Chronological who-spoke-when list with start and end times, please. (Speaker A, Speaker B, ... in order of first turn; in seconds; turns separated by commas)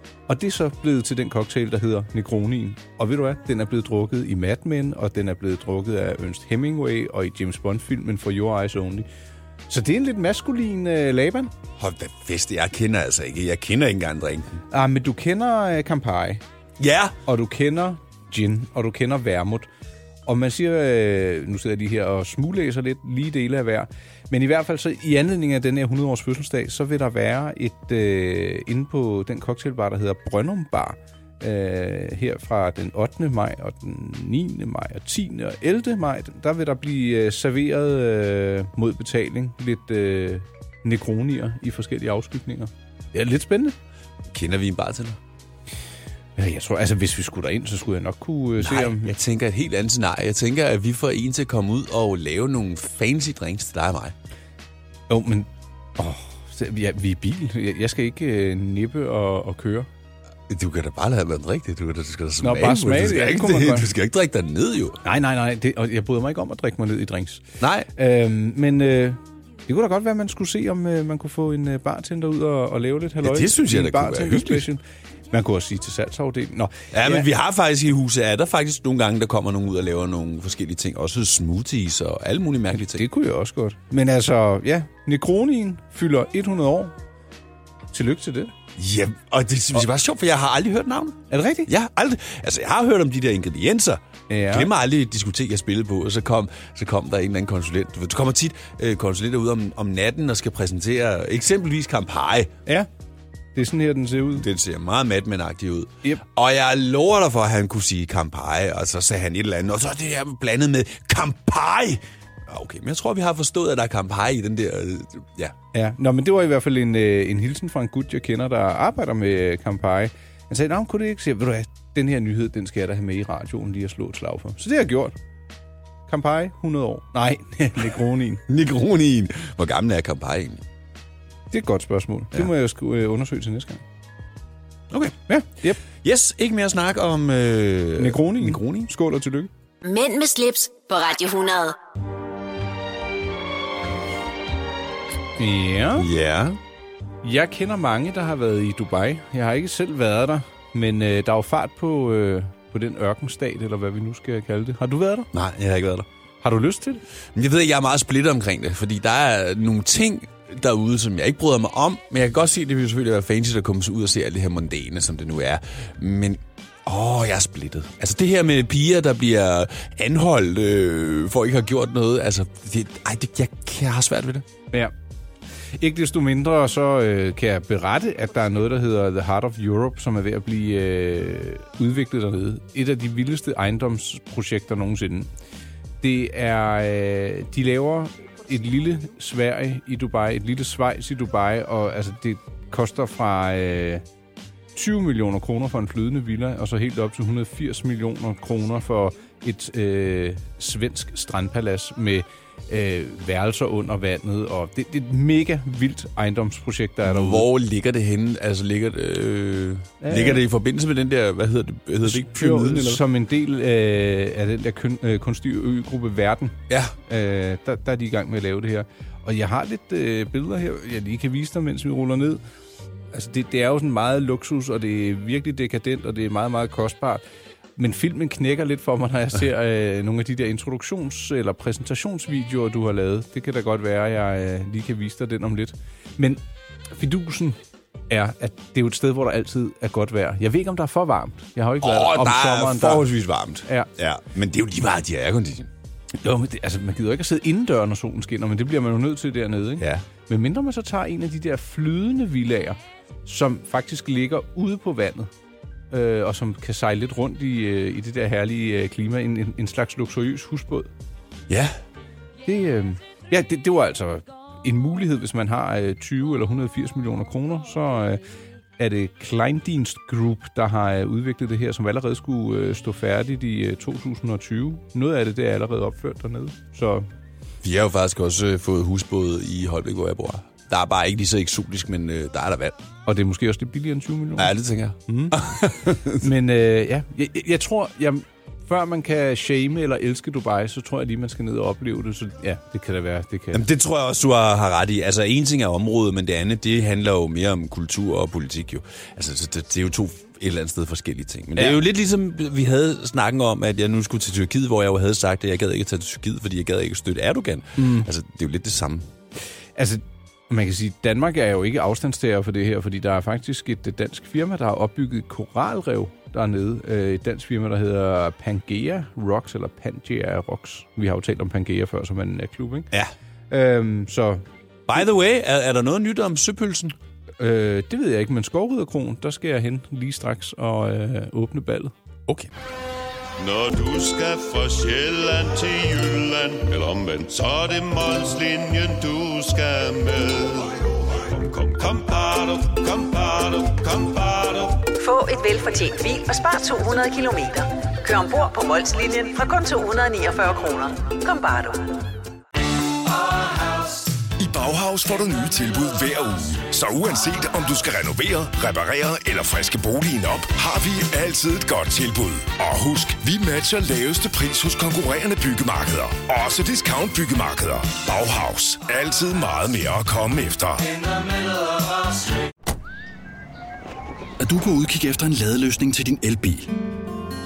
Speaker A: 0.3-9.1, Speaker A: 9.7-11.5, Speaker B: 11.8-14.6, Speaker A: 14.7-16.4, Speaker B: 16.8-17.2, Speaker A: 17.3-19.7, Speaker A: 20.3-43.8, Speaker B: 44.3-45.2, Speaker A: 46.4-49.1, Speaker B: 48.6-54.1, Speaker A: 55.1-59.9, Speaker B: 60.5-65.0, Speaker A: 62.4-63.9, Speaker A: 65.0-67.4, Speaker B: 67.6-67.9, Speaker A: 68.0-77.3, Speaker B: 73.2-74.7, Speaker B: 76.9-83.0, Speaker A: 82.7-86.9, Speaker A: 87.9-88.5, Speaker B: 88.8-102.5, Speaker A: 91.3-91.7, Speaker A: 94.3-94.7, Speaker A: 103.5-104.5, Speaker B: 104.4-115.5, Speaker A: 115.7-125.2, Speaker A: 126.1-128.4, Speaker B: 128.5-130.6, Speaker A: 131.5-133.8, Speaker B: 134.9-135.2, Speaker A: 135.3-135.8, Speaker B: 136.0-138.9, Speaker A: 138.0-139.5, Speaker C: 139.8-141.8, Speaker A: 145.4-146.1, Speaker B: 146.0-146.6, Speaker A: 147.2-155.3, Speaker B: 155.3-156.1, Speaker A: 156.4-157.0, Speaker B: 157.3-174.5, Speaker A: 175.8-185.3, Speaker A: 186.0-194.0, Speaker A: 194.8-207.5, Speaker B: 207.1-213.0, Speaker A: 210.0-210.4, Speaker A: 212.1-222.4, Speaker B: 216.7-216.9, Speaker A: 223.1-227.2, Speaker A: 227.8-236.4, Speaker A: 236.9-237.6, Speaker A: 238.1-243.1, Speaker B: 241.8-245.7, Speaker A: 243.7-243.9, Speaker A: 246.2-255.3, Speaker B: 249.8-250.0, Speaker A: 255.9-260.9, Speaker B: 261.5-261.8, Speaker A: 262.5-268.2, Speaker A: 268.8-277.1, Speaker B: 277.6-282.8, Speaker A: 283.1-284.5, Speaker B: 284.4-286.2, Speaker A: 285.1-285.4, Speaker A: 286.1-293.6, Speaker B: 293.5-309.1, Speaker A: 307.8-308.1, Speaker A: 309.8-322.9, Speaker A: 323.5-324.4, Speaker B: 324.9-326.9, Speaker A: 327.4-331.9, Speaker B: 332.3-332.5, Speaker D: 333.4-344.9, Speaker E: 344.9-352.1, Speaker F: 354.4-370.9, Speaker G: 374.4-376.7